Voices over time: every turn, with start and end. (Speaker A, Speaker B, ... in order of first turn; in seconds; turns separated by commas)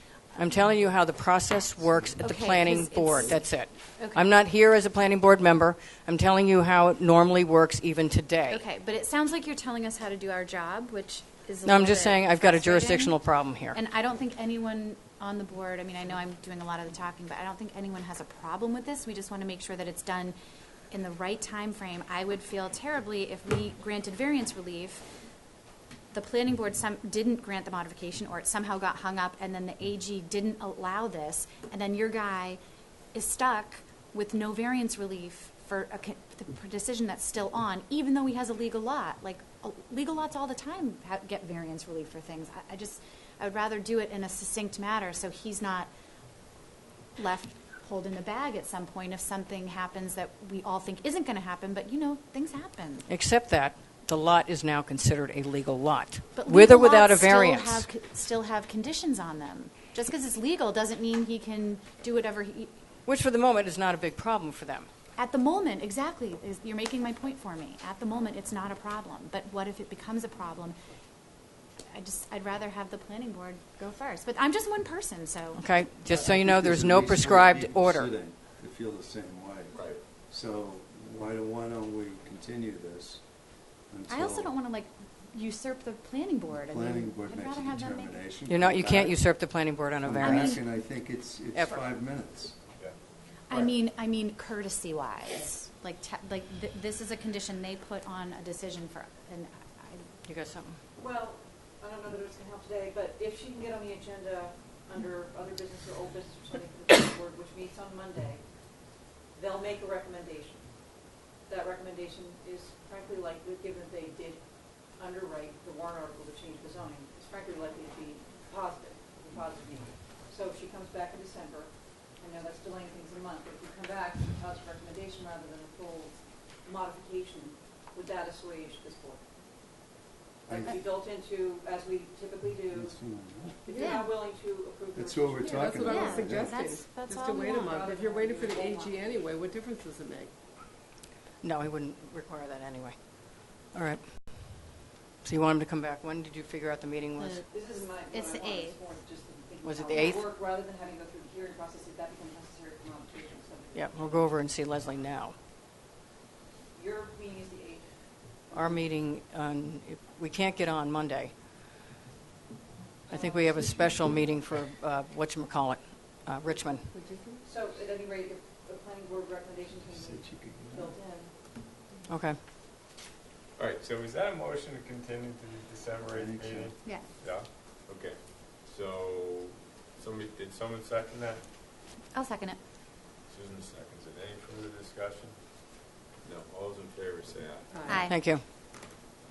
Speaker A: 0.3-8.6, Speaker B: 2.2-3.4, Speaker B: 4.0-4.2, Speaker B: 8.5-13.2, Speaker A: 11.6-13.8, Speaker B: 13.7-20.4, Speaker B: 20.9-25.0, Speaker B: 26.1-32.6, Speaker B: 33.1-45.9, Speaker B: 47.2-53.1, Speaker A: 53.1-57.9, Speaker B: 56.4-62.7, Speaker A: 63.0-64.9, Speaker B: 65.2-70.8, Speaker B: 71.9-75.6, Speaker A: 75.5-78.1, Speaker C: 76.1-83.2, Speaker D: 79.7-80.0, Speaker C: 83.9-84.5, Speaker B: 84.1-88.1, Speaker C: 86.6-89.2, Speaker A: 88.5-90.6, Speaker C: 90.0-92.6, Speaker B: 90.2-90.6, Speaker A: 91.5-91.8, Speaker B: 93.5-100.0, Speaker A: 100.2-100.8, Speaker E: 101.0-108.4, Speaker E: 109.3-110.7, Speaker E: 111.5-114.4, Speaker E: 115.0-129.2, Speaker C: 130.5-130.8, Speaker E: 130.5-133.0, Speaker C: 132.7-133.7, Speaker E: 133.6-136.1, Speaker B: 133.7-134.0, Speaker C: 134.9-136.6, Speaker F: 135.4-140.3, Speaker B: 135.8-137.7, Speaker E: 137.5-139.0, Speaker A: 141.4-142.9, Speaker A: 143.7-144.0, Speaker A: 145.2-147.4, Speaker E: 147.5-154.2, Speaker B: 148.1-148.8, Speaker A: 149.6-150.3, Speaker A: 153.7-155.3, Speaker E: 156.7-157.9, Speaker A: 158.5-161.3, Speaker E: 163.1-164.0, Speaker A: 163.1-166.9, Speaker F: 166.9-167.4, Speaker E: 167.4-171.3, Speaker C: 169.9-170.9, Speaker A: 172.1-172.4, Speaker D: 173.6-181.4, Speaker C: 176.1-176.8, Speaker B: 182.1-182.6, Speaker D: 183.3-185.3, Speaker D: 186.2-187.9, Speaker F: 187.7-188.0, Speaker B: 187.9-188.2, Speaker A: 188.1-188.4